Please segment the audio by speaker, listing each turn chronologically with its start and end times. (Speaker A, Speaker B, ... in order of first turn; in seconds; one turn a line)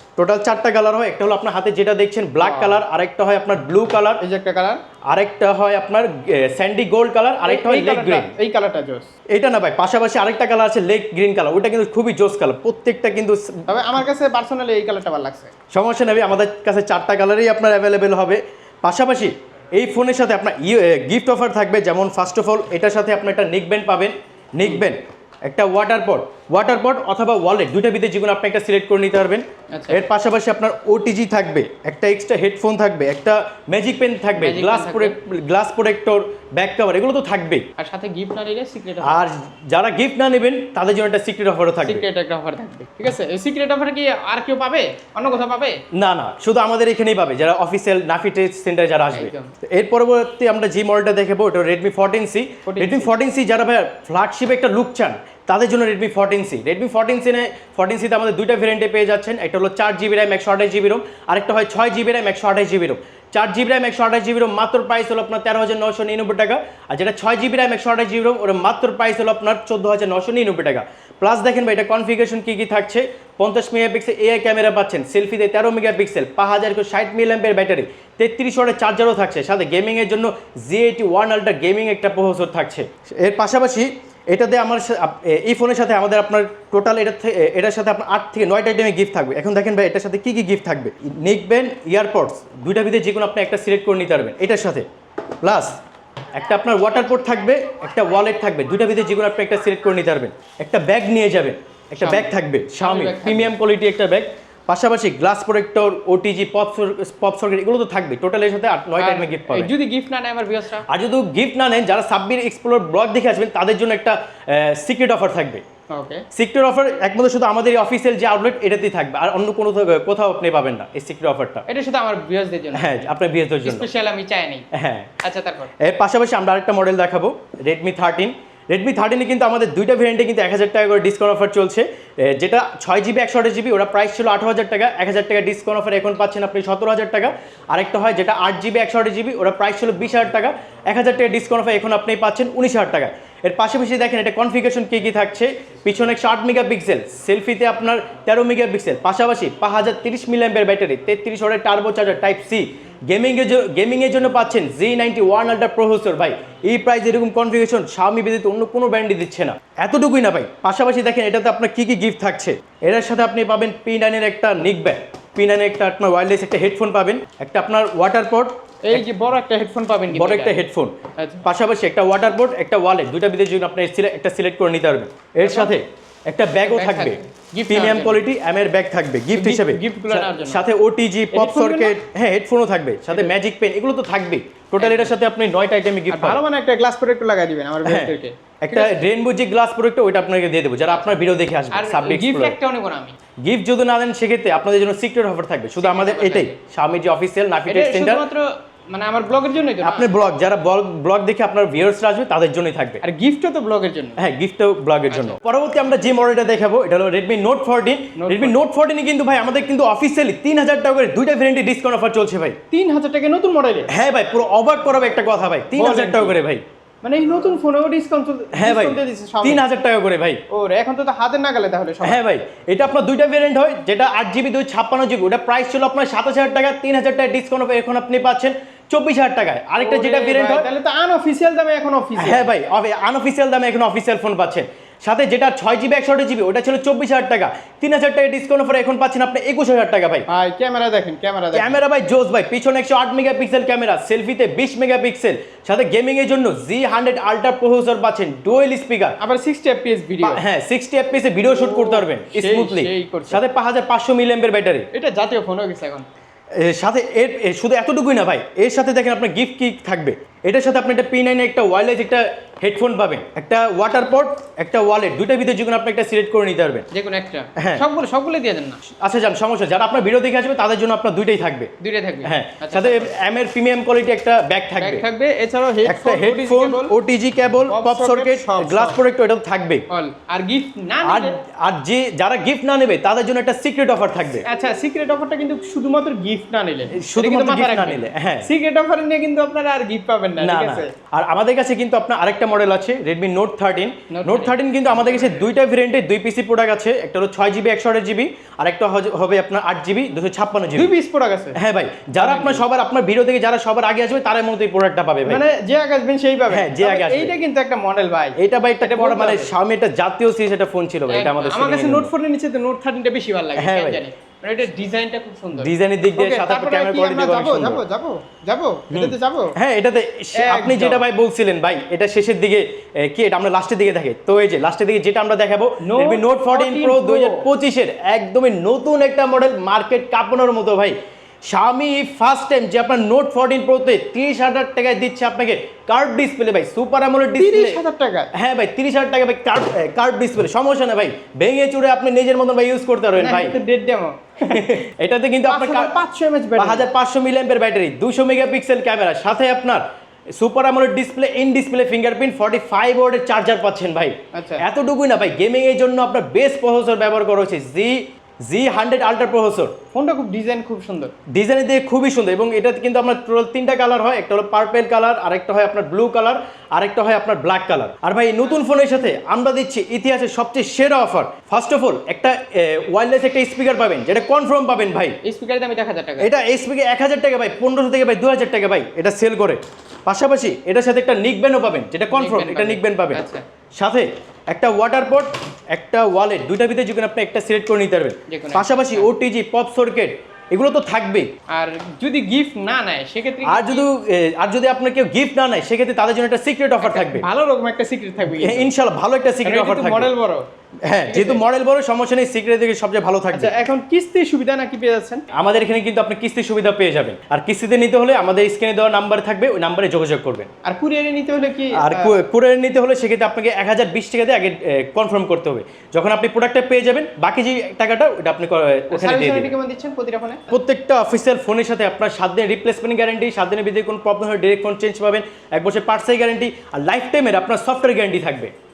Speaker A: 0.2-4.2
Speaker B: 2.4-2.8
Speaker B: 4.2-4.8
Speaker A: 5.1-8.3
Speaker B: 7.5-9.1
Speaker A: 9.3-13.5
Speaker B: 13.7-15.5
Speaker A: 15.7-37.6
Speaker B: 29.7-30.0
Speaker B: 34.4-35.1
Speaker B: 37.8-39.2
Speaker A: 39.0-42.0
Speaker B: 41.8-45.8
Speaker A: 45.9-94.8
Speaker B: 49.1-49.5
Speaker B: 52.6-53.1
Speaker A: 95.4-95.8
Speaker A: 96.4-109.7
Speaker B: 102.0-103.5
Speaker B: 109.0-110.8
Speaker A: 110.9-115.6
Speaker B: 115.9-116.2
Speaker A: 116.3-121.7
Speaker B: 121.7-123.1
Speaker A: 122.7-123.9
Speaker B: 123.6-124.7
Speaker A: 124.7-125.1
Speaker B: 125.2-125.7
Speaker A: 125.8-169.0
Speaker B: 168.9-170.6
Speaker A: 170.1-186.4
Speaker B: 171.2-171.4
Speaker B: 175.4-175.8
Speaker B: 176.6-178.2
Speaker B: 179.3-180.7
Speaker B: 181.3-181.9
Speaker B: 184.8-185.1
Speaker B: 186.1-189.1
Speaker A: 187.8-192.6
Speaker B: 190.9-191.2
Speaker B: 191.7-193.2
Speaker A: 193.4-198.2
Speaker B: 195.8-196.5
Speaker B: 197.7-200.1
Speaker A: 199.8-203.0
Speaker B: 203.0-204.2
Speaker A: 204.2-212.6
Speaker B: 205.1-205.4
Speaker B: 208.2-208.6
Speaker B: 212.7-213.9
Speaker A: 213.9-216.6
Speaker B: 215.7-216.4
Speaker B: 217.0-219.6
Speaker A: 218.5-220.4
Speaker B: 220.5-222.2
Speaker A: 222.0-230.7
Speaker B: 229.8-232.5
Speaker A: 232.2-240.2
Speaker B: 240.3-241.8
Speaker A: 241.5-249.2
Speaker B: 249.2-250.4
Speaker A: 250.2-254.9
Speaker B: 251.4-253.4
Speaker B: 254.9-256.1
Speaker A: 256.6-266.9
Speaker B: 266.9-268.8
Speaker A: 267.6-267.8
Speaker A: 269.0-271.7
Speaker B: 271.8-273.2
Speaker A: 272.2-275.1
Speaker B: 274.8-276.9
Speaker A: 275.8-279.8
Speaker B: 277.7-279.0
Speaker B: 279.9-281.4
Speaker A: 281.0-284.4
Speaker B: 284.4-290.9
Speaker A: 287.0-288.5
Speaker A: 290.4-300.9
Speaker B: 294.1-295.4
Speaker B: 300.8-301.6
Speaker A: 301.6-305.4
Speaker B: 302.2-302.7
Speaker B: 305.3-309.5
Speaker A: 306.5-307.3
Speaker A: 308.4-312.1
Speaker B: 311.1-319.6
Speaker A: 313.6-314.0
Speaker A: 315.6-317.8
Speaker A: 318.9-337.8
Speaker B: 320.4-321.0
Speaker B: 325.8-327.5
Speaker B: 337.4-338.3
Speaker A: 338.4-343.6
Speaker B: 343.2-344.8
Speaker A: 344.5-345.9
Speaker B: 345.5-346.9
Speaker A: 346.6-349.8
Speaker A: 350.4-359.7
Speaker B: 354.3-354.6
Speaker B: 359.9-361.1
Speaker A: 361.3-375.2
Speaker B: 375.2-376.3
Speaker A: 376.2-383.2
Speaker B: 382.1-383.4
Speaker A: 383.8-391.3
Speaker B: 388.3-389.1
Speaker B: 391.5-393.9
Speaker A: 393.4-397.2
Speaker B: 396.8-398.7
Speaker A: 398.2-400.1
Speaker B: 399.4-400.4
Speaker A: 400.9-403.5
Speaker B: 401.1-401.4
Speaker B: 403.3-405.2
Speaker A: 405.3-410.5
Speaker B: 410.6-412.1
Speaker A: 411.8-419.5
Speaker B: 418.9-420.4
Speaker A: 420.5-428.5